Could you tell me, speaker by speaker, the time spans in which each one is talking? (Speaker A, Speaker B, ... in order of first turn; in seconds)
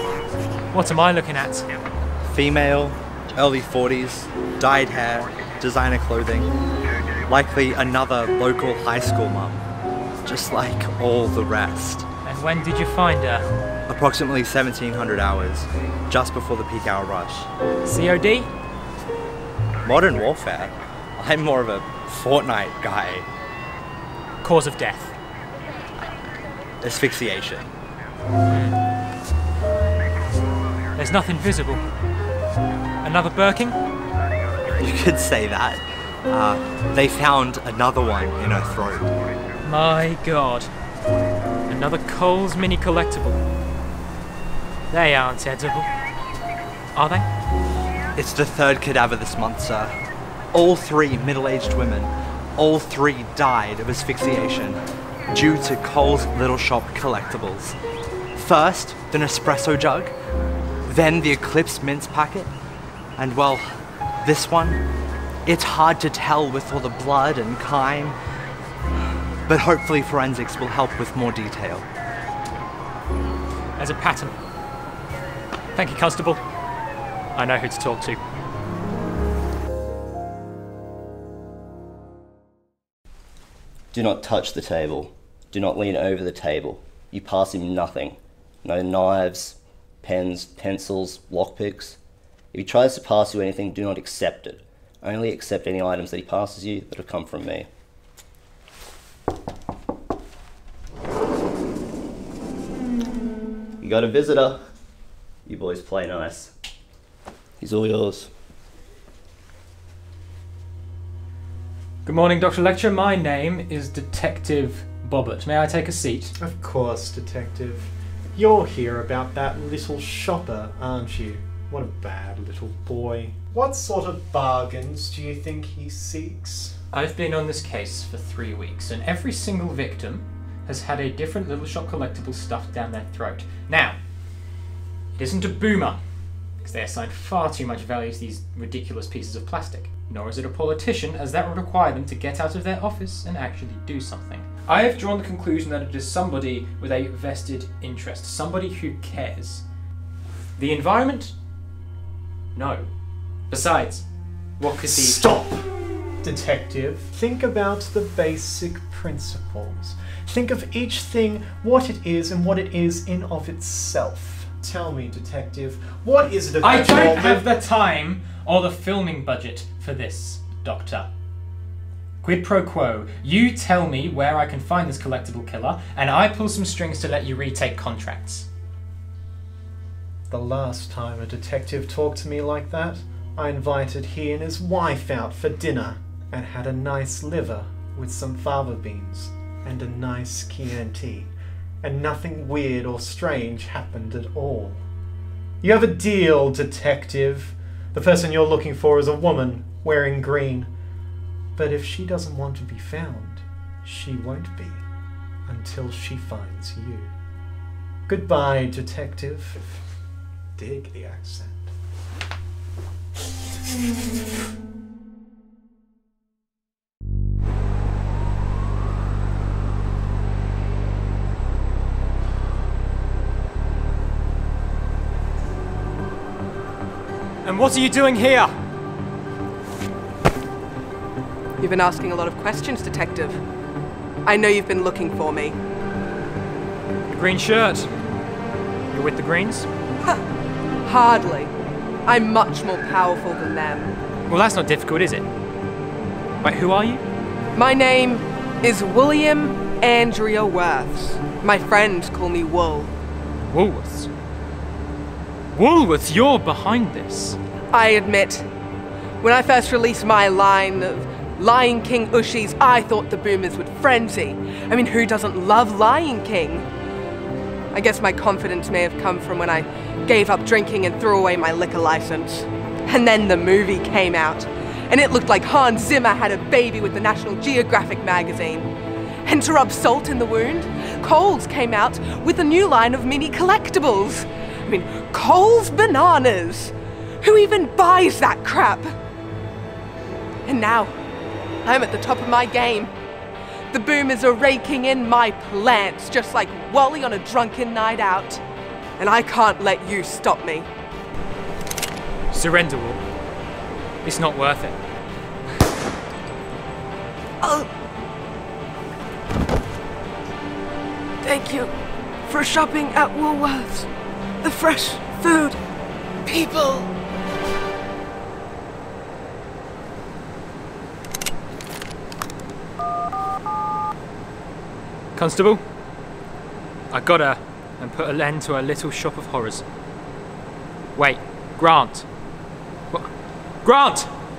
Speaker A: 0.7-1.6, 12.2-13.4, 17.8-18.5, 24.4-25.1, 28.5-28.8, 30.9-31.8, 33.0-33.8, 39.6-40.7, 41.7-43.4, 44.9-45.9, 46.9-47.3, 73.8-74.3, 75.7-76.4, 77.3-78.2, 112.0-116.3, 126.9-134.0, 135.2-136.0, 136.6-149.6, 150.6-151.3, 152.5-152.9, 153.5-154.0, 154.6-155.4, 166.6-171.1, 172.2-178.5, 227.4-228.5, 237.1-237.9, 238.9-239.7, 244.3-245.3, 246.4-247.0, 253.5-254.1, 255.5-257.4, 302.3-303.0, 304.0-304.8, 325.1-325.6, 326.9-329.6, 330.9-332.1, 333.6-334.1
Speaker B: 2.3-6.5, 7.3-9.6, 10.3-12.0, 13.9-17.5, 19.8-23.2, 26.8-27.7, 34.8-39.1, 48.2-49.9, 50.6-54.8, 55.3-57.7, 58.4-60.1, 60.9-62.5, 63.2-63.6, 64.2-64.8, 65.5-68.2, 69.5-71.8
Speaker C: 83.9-92.0, 92.5-97.7, 103.8-104.6, 105.5-106.5, 107.6-108.3
Speaker D: 116.4-126.8, 154.9-167.4, 180.3-191.3, 191.8-194.8, 195.6-200.7, 201.6-204.8, 205.5-207.1, 208.1-209.8, 210.6-211.7
Speaker E: 231.6-233.4, 234.2-235.6, 240.8-241.5, 242.0-243.9, 247.5-252.9, 257.7-258.5, 259.2-266.6, 267.7-278.7, 279.2-288.9, 290.4-290.9, 291.6-292.9, 293.7-298.4, 299.0-300.7, 307.4-307.7, 311.2-311.7, 312.2-313.9, 314.4-315.6, 316.2-316.9